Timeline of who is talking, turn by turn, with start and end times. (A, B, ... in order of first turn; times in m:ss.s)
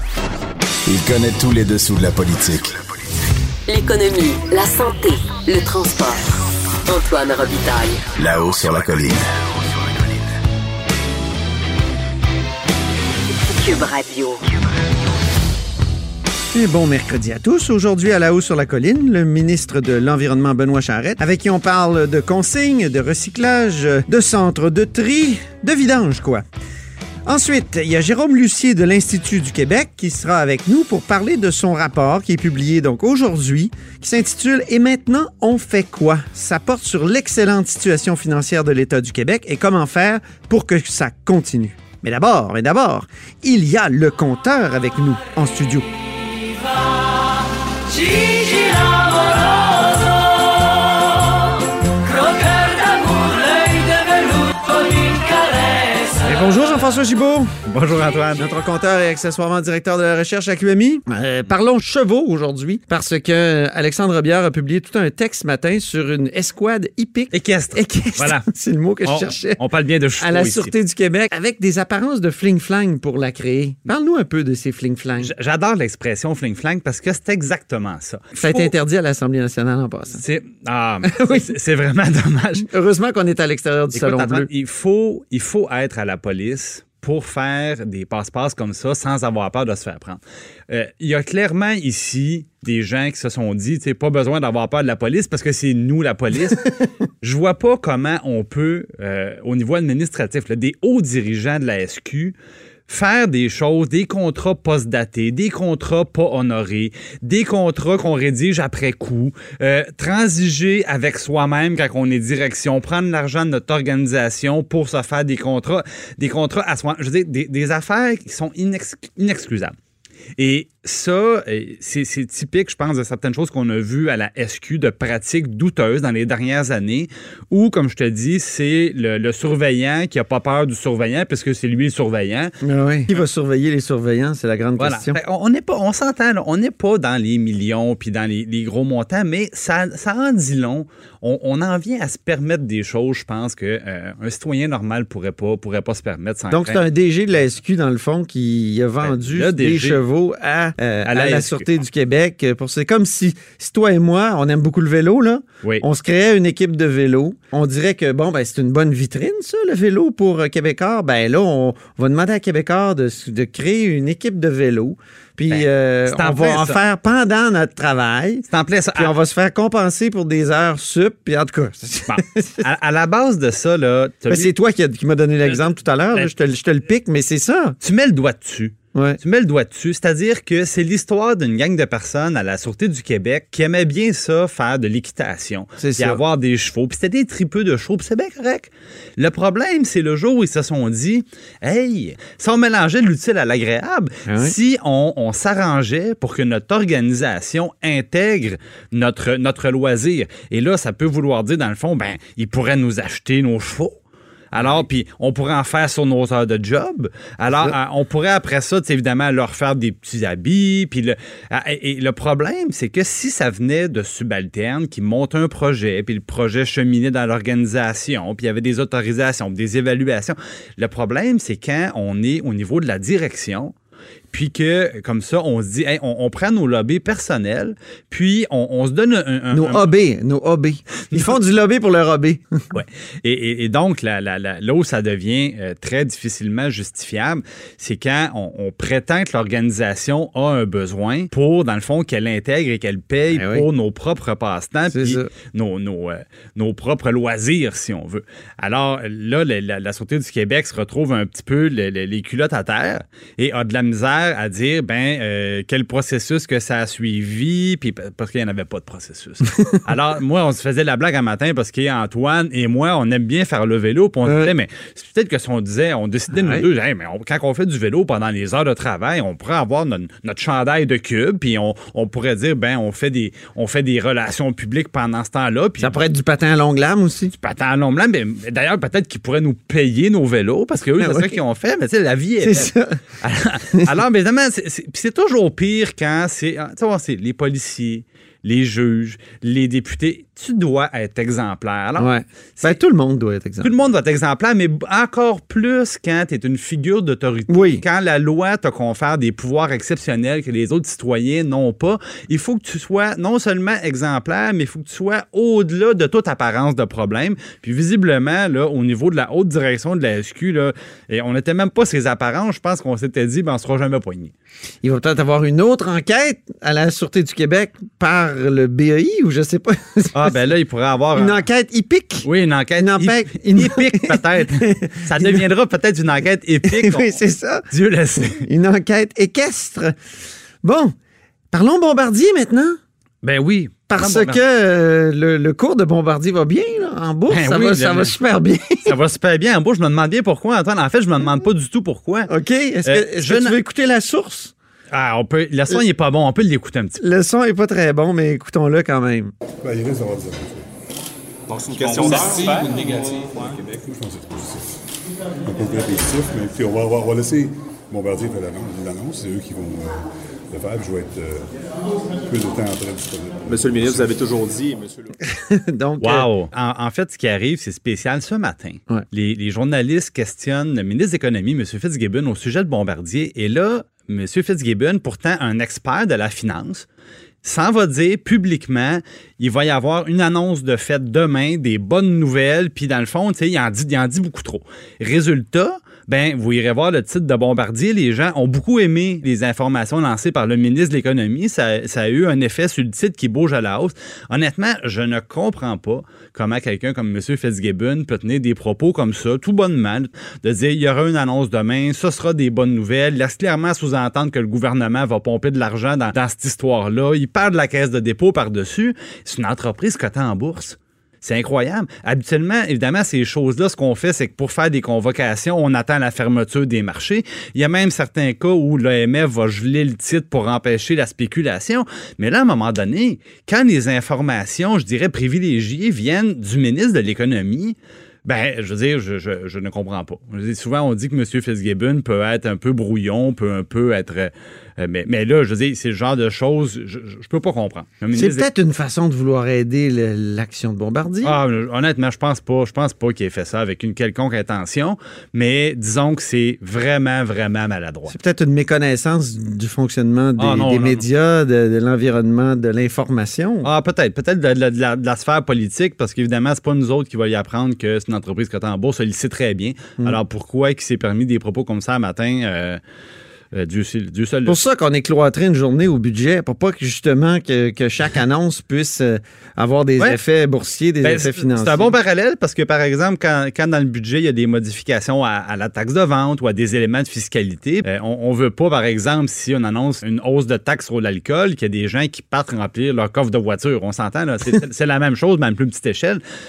0:00.9-0:02.8 A
0:03.7-0:06.3 B
0:06.8-0:08.0 B
0:08.2-0:09.3 A
0:13.5-0:14.4 B
0:16.5-0:26.4 C
0:27.2-0:45.9 C
0:56.2-0:57.6 C
0:57.6-0:58.4 D
0:58.4-1:09.6 C
1:07.3-1:08.5 D
1:09.0-1:10.7 D
1:10.2-1:15.3 C
1:15.2-1:18.7 D
1:18.3-1:20.2 C
1:20.1-1:22.7 D
1:21.0-1:21.5 C
1:22.6-1:24.5 C
1:24.0-1:42.3 D
1:42.9-1:59.8 D
2:00.4-2:12.5 D
2:12.6-2:15.2 C
2:14.8-2:26.8 D
2:26.5-2:52.6 C
2:29.0-2:30.0 D
2:31.1-2:31.6 D
2:45.5-2:46.8 D
2:48.5-2:49.1 D
2:52.1-2:54.5 D
2:54.3-2:57.8 C
2:57.8-3:24.0 D
2:58.9-2:59.2 C
3:05.8-3:06.2 C
3:14.2-3:14.5 C
3:24.5-3:43.7 D
3:24.6-3:24.8 C
3:44.3-3:49.8 D
3:49.5-3:52.6 C
3:52.7-4:36.0 D
4:03.3-4:03.6 C
4:04.9-4:05.3 C
4:24.2-4:24.5 C
4:26.3-4:26.6 C
4:35.8-4:37.3 C
4:37.4-4:52.8 D
4:41.0-4:41.4 C
4:42.4-4:43.0 C
4:52.0-4:53.7 C
4:53.6-5:14.3 D
4:57.5-4:57.8 C
5:14.8-5:20.4 C
5:20.1-5:21.4 D
5:21.1-5:25.5 C
5:22.2-5:28.5 D
5:26.6-5:27.6 C
5:28.2-5:30.0 C
5:30.6-5:30.9 C
5:31.5-5:32.8 C
5:33.2-5:34.4 D
5:33.9-5:39.0 C
5:37.3-5:38.1 D
5:38.8-5:42.3 D
5:42.3-5:44.5 C
5:42.8-5:43.6 D
5:44.9-5:47.0 D
5:47.0-5:49.3 C
5:49.6-5:50.6 E
5:51.5-5:53.8 F
5:51.8-5:52.4 E
5:53.7-5:54.7 E
5:55.4-6:01.5 E
6:02.2-6:04.1 E
6:03.5-6:05.1 F
6:05.2-6:06.3 C
6:06.0-6:16.8 D
6:17.4-7:18.4 D
7:18.1-7:21.4 C
7:21.2-7:28.1 D
7:28.1-7:33.7 C
7:30.4-7:31.0 D
7:33.6-7:42.8 D
7:43.5-7:44.6 D
7:44.4-7:51.9 C
7:51.0-8:06.2 D